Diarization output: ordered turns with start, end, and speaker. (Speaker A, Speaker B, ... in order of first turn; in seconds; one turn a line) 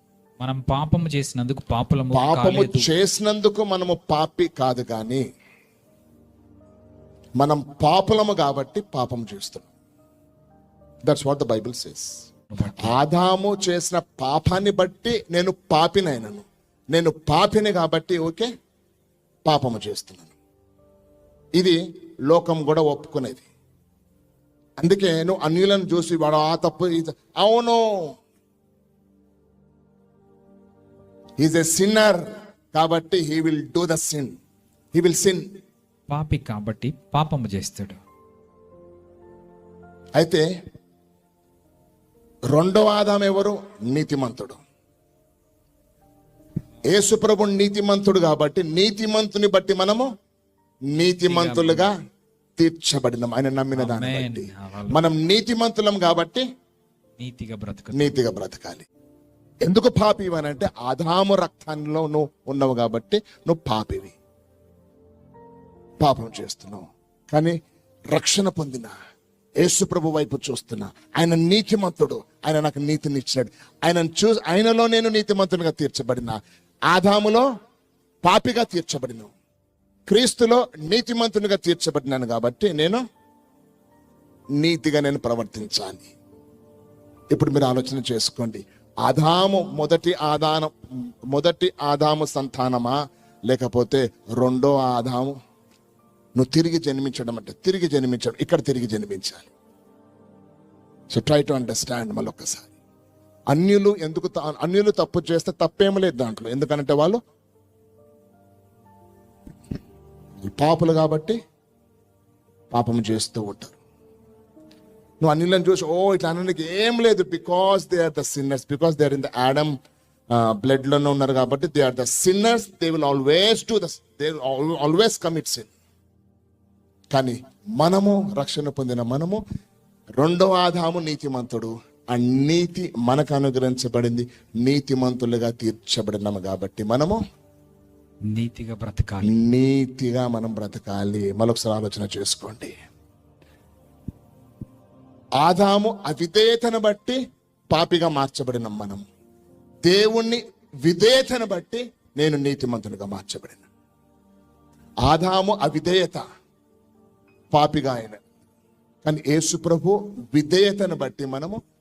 Speaker A: 0.4-2.9
Speaker B: 2.1-5.2
Speaker B: 7.4-9.7
Speaker B: 11.1-12.1
Speaker A: 12.5-12.9
Speaker B: 12.8-18.5
Speaker B: 19.4-20.3
Speaker B: 22.3-23.5
Speaker B: 24.8-28.1
Speaker B: 31.4-34.4
Speaker B: 35.0-35.4
Speaker A: 36.1-38.0
Speaker B: 40.2-40.4
Speaker B: 42.5-44.6
Speaker B: 46.9-50.1
Speaker B: 50.9-51.9
Speaker A: 51.3-51.9
Speaker B: 52.6-56.4
Speaker A: 53.7-55.0
Speaker A: 57.2-58.1
Speaker B: 57.9-58.9
Speaker B: 59.6-64.2
Speaker B: 66.0-67.5
Speaker B: 68.1-68.9
Speaker B: 69.6-76.4
Speaker B: 76.9-77.5
Speaker B: 78.2-79.3
Speaker B: 80.1-83.0
Speaker B: 84.6-86.1
Speaker B: 87.3-90.7
Speaker B: 91.3-92.9
Speaker B: 93.5-95.3
Speaker B: 96.3-99.5
Speaker B: 101.1-102.7
Speaker B: 103.5-107.2
Speaker B: 110.5-111.4
Speaker B: 112.7-113.8
Speaker B: 115.2-119.7
Speaker B: 120.3-125.7
Speaker B: 127.1-129.4
Speaker B: 130.2-137.2
Speaker A: 138.3-139.3
Speaker B: 139.2-142.7
Speaker B: 145.4-147.2
Speaker B: 147.7-149.0
Speaker B: 149.8-153.7
Speaker B: 155.1-156.2
Speaker B: 157.5-158.2
Speaker B: 159.0-161.6